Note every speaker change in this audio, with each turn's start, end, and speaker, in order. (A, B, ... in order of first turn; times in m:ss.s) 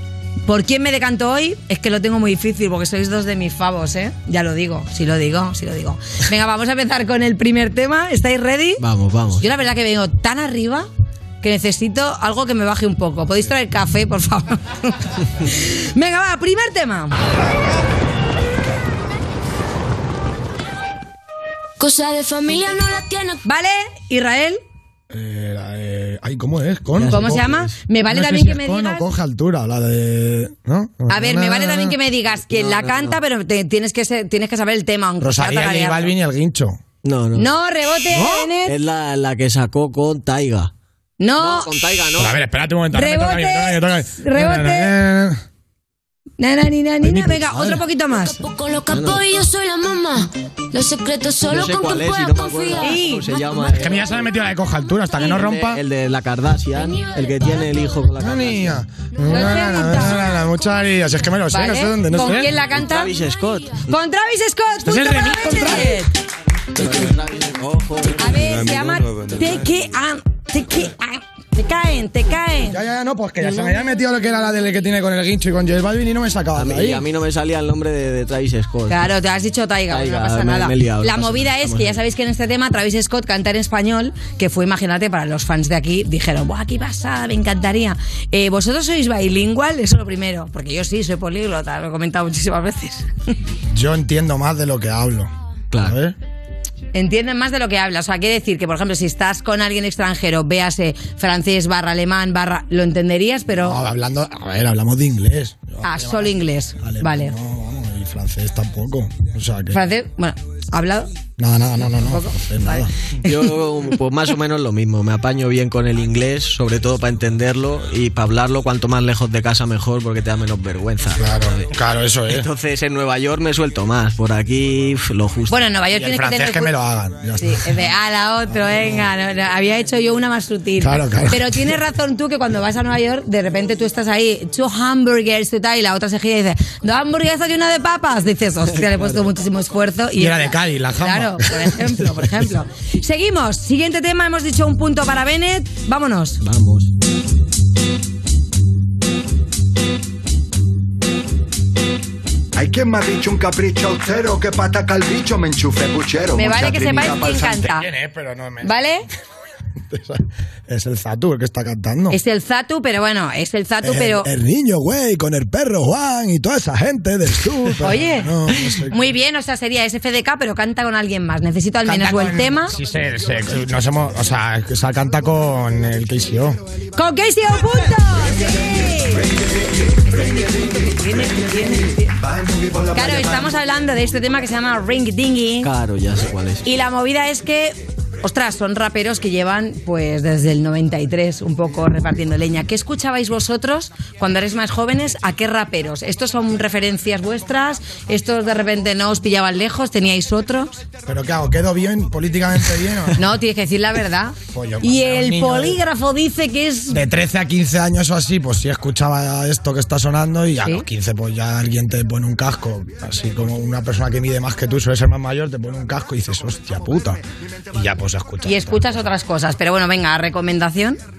0:00.5-0:08.8 A
0:08.8-0:09.4 B
0:09.4-0:10.9 A
0:11.4-0:17.2 A
0:21.8-0:23.4 C
0:23.4-0:24.6 A
0:25.1-0:27.4 D
0:27.0-0:27.8 B
0:27.1-0:29.0 A
0:28.1-0:32.0 D
0:31.1-0:36.1 A
0:32.4-0:33.2 B
0:35.2-0:36.8 D
0:37.0-0:37.5 B
0:37.4-0:38.8 A
0:38.1-0:38.5 D
0:38.6-0:40.7 B
0:41.2-0:41.7 A
0:41.4-0:42.4 B
0:42.2-0:45.4 D
0:42.9-0:45.0 A
0:46.4-0:48.4 A
0:47.0-0:47.8 D
0:48.1-0:54.0 C
0:48.9-0:49.3 B
0:51.4-0:54.3 B
0:52.8-0:53.3 A
0:53.7-0:55.8 D
0:55.1-0:58.8 B
0:56.8-0:57.7 C
0:58.2-1:02.5 D
0:59.3-1:00.4 A
1:01.5-1:03.1 A
1:02.2-1:04.0 B
1:03.9-1:06.1 A
1:04.8-1:06.0 D
1:06.8-1:09.0 B
1:08.2-1:12.8 A
1:12.7-1:17.0 D
1:16.6-1:19.1 B
1:18.9-1:33.1 A
1:19.9-1:22.0 B
1:33.7-1:36.2 D
1:35.7-1:36.0 B
1:36.9-1:43.8 A
1:43.6-1:49.8 D
1:45.8-1:47.3 A
1:49.7-1:51.1 A
1:51.4-1:52.9 D
1:52.0-1:53.4 A
1:53.2-2:01.6 B
2:01.1-2:02.5 D
2:02.3-2:05.6 B
2:05.5-2:06.7 A
2:05.9-2:07.9 D
2:07.4-2:26.4 A
2:10.8-2:11.7 D
2:18.8-2:19.2 B
2:20.2-2:22.3 D
2:26.4-2:26.9 B
2:32.6-2:37.5 E
2:36.4-2:37.9 A
2:37.3-2:38.8 D
2:38.6-2:39.1 A
2:39.8-2:42.2 D
2:42.1-2:44.3 A
2:43.8-2:49.1 D
2:47.8-2:48.3 A
2:48.9-2:52.8 A
2:51.8-2:56.6 D
2:56.9-2:59.3 A
3:00.1-3:02.1 A
3:02.2-3:03.5 E
3:02.9-3:05.7 A
3:05.6-3:06.6 B
3:06.6-3:20.8 A
3:21.1-3:23.2 D
3:23.2-3:27.0 A
3:24.5-3:25.8 D
3:26.9-3:37.2 D
3:37.7-3:39.1 D
3:38.4-3:41.0 A